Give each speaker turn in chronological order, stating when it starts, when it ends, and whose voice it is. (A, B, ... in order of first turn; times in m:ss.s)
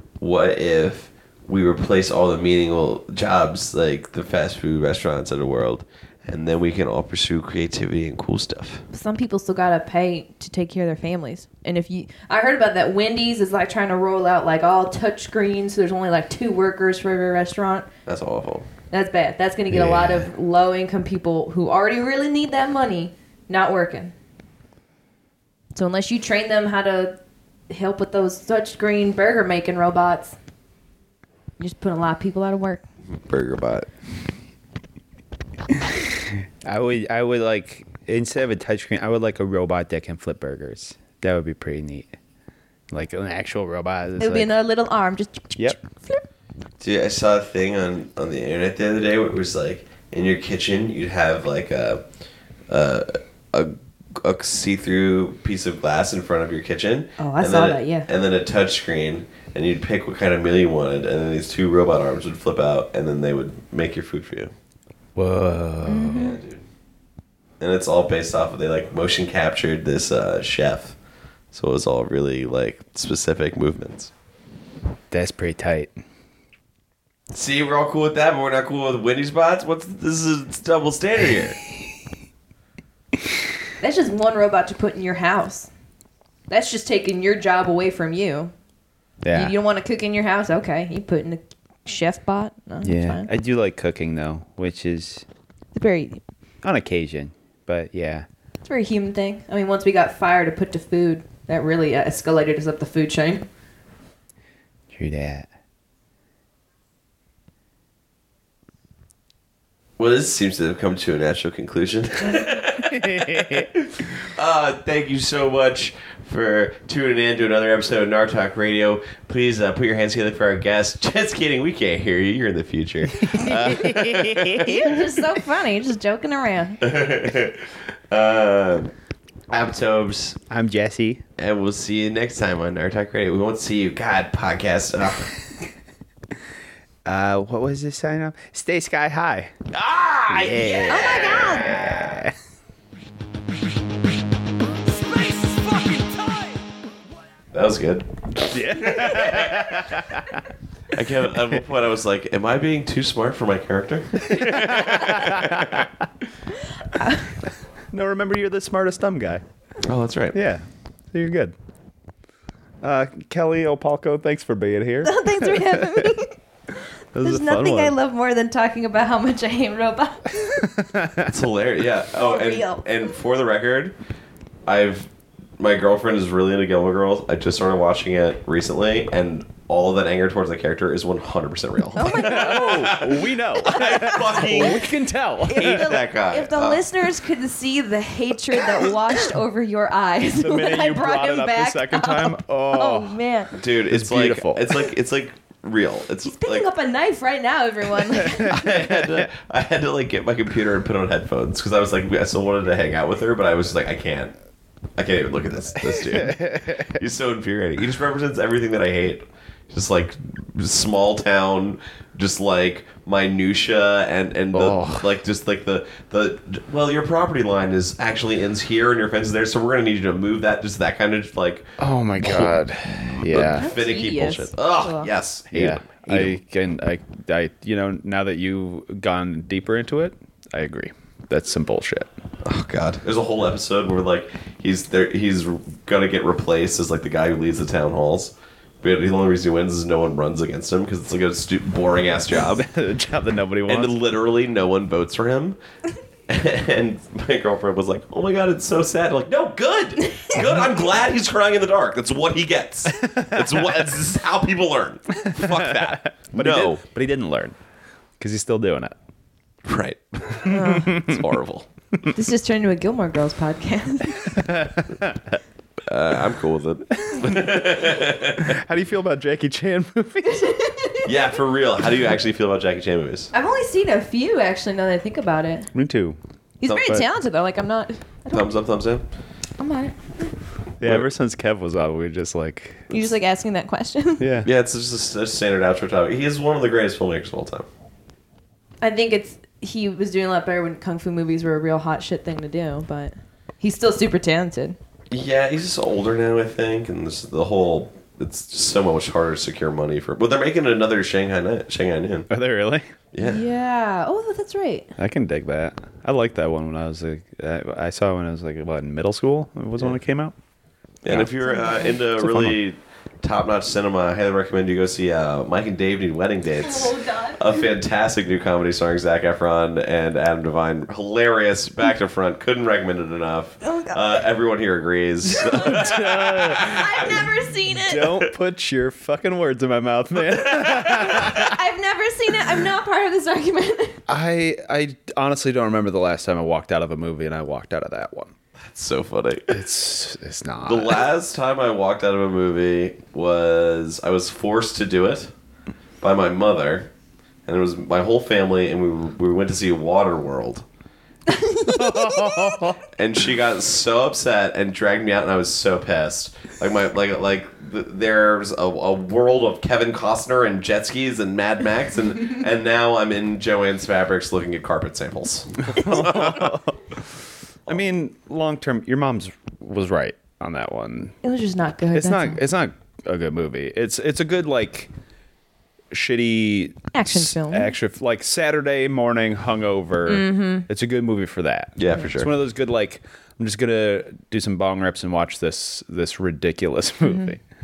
0:00.2-0:08.9 A
0:08.9-0:17.9 B
0:18.1-0:18.7 A
0:18.9-0:24.1 B
0:19.7-0:20.3 C
0:25.8-0:27.2 B
0:27.7-0:30.4 B
0:31.6-0:32.8 B
0:33.1-0:33.9 A
0:36.3-0:42.1 C
0:42.9-0:44.5 C
0:44.2-0:46.2 B
0:46.8-0:52.0 A
0:52.7-1:04.5 A
0:57.2-0:58.1 B
1:05.2-1:06.2 C
1:05.8-1:06.4 B
1:05.9-1:06.6 A
1:07.6-1:11.0 A
1:11.5-1:14.1 A
1:15.1-1:16.0 C
1:17.3-1:21.6 A
1:23.8-1:25.7 B
1:26.5-1:28.5 B
1:29.2-1:29.6 C
1:29.3-1:33.3 B
1:32.8-1:35.2 C
1:35.8-1:36.2 B
1:36.6-1:38.3 C
1:38.6-1:43.5 B
1:44.9-1:45.5 C
1:50.0-2:04.7 A
1:52.8-1:53.7 C
2:03.1-2:04.9 C
2:04.6-2:06.8 B
2:06.8-2:08.9 A
2:09.5-2:10.4 A
2:10.5-2:11.2 C
2:11.4-2:15.3 A
2:17.0-2:19.7 C
2:19.7-2:20.9 A
2:20.2-2:22.4 C
2:20.9-2:21.8 B
2:24.6-2:26.7 D
2:27.5-2:29.7 A
2:28.5-2:30.4 C
2:30.9-2:35.9 A
2:34.2-2:35.9 C
2:36.9-2:37.3 B
2:37.9-2:39.4 C
2:39.8-2:40.4 A
2:40.3-2:41.5 C
2:42.8-2:46.1 C
2:45.0-2:46.4 B
2:47.1-2:48.0 C
2:47.2-2:50.7 B
2:50.6-2:51.4 C
2:51.2-2:54.0 A
2:52.1-2:53.1 B
2:54.7-3:04.9 A
3:02.0-3:03.0 B
3:02.0-3:05.9 C
3:03.7-3:04.8 B
3:05.4-3:13.6 B
3:05.5-3:06.9 A
3:10.4-3:13.2 C
3:13.6-3:16.7 A
3:13.9-3:14.8 C
3:16.3-3:18.7 B
3:18.3-3:24.3 A
3:18.4-3:19.3 C
3:25.0-3:46.4 A
3:25.8-3:27.0 C
3:34.5-3:35.1 C
3:41.8-3:43.7 C
3:43.5-3:45.1 B
3:45.5-3:52.1 C
3:52.4-4:02.6 A
4:02.4-4:03.9 C
4:03.7-4:05.6 A
4:06.3-4:16.8 A
4:10.0-4:10.3 B
4:13.0-4:13.7 C
4:15.3-4:17.6 C
4:18.2-4:19.0 C
4:19.6-4:21.7 A
4:20.5-4:21.0 B
4:20.5-4:21.2 C
4:22.1-4:24.4 B
4:24.3-4:25.2 C
4:25.9-4:28.6 A
4:27.1-4:30.5 C
4:30.3-4:31.1 B
4:31.0-4:33.3 A
4:33.3-4:35.7 B
4:35.7-4:36.2 C
4:36.6-4:38.5 B
4:36.7-4:36.9 A
4:36.7-4:37.0 C
4:38.3-4:39.0 A
4:39.6-4:40.3 B
4:40.8-4:42.9 C
4:42.9-4:44.3 B
4:44.2-4:44.5 C
4:44.4-4:47.7 A
4:48.8-4:54.8 B
4:55.1-5:02.3 A
5:02.3-5:02.9 C
5:03.1-5:03.4 A
5:03.2-5:04.9 B
5:05.0-5:10.4 C
5:11.0-5:26.9 A
5:11.4-5:12.0 B
5:12.2-5:12.6 C
5:16.6-5:17.7 B
5:23.6-5:24.0 B
5:25.3-5:26.8 C
5:25.4-5:25.9 B
5:26.6-5:28.3 B
5:27.9-5:31.6 C
5:30.7-5:34.0 B
5:34.1-5:38.3 C
5:38.6-5:39.6 A
5:39.5-5:41.0 C
5:40.6-5:45.3 A
5:46.0-5:46.9 A
5:47.5-5:50.6 A
5:51.3-5:52.6 B
5:51.7-5:52.8 C
5:53.0-6:06.6 A
6:05.6-6:11.2 C
6:11.2-6:12.4 B
6:11.9-6:14.9 C
6:15.9-6:27.4 C
6:16.9-6:17.7 B
6:20.1-6:20.7 B
6:21.8-6:22.3 A
6:27.0-6:27.3 B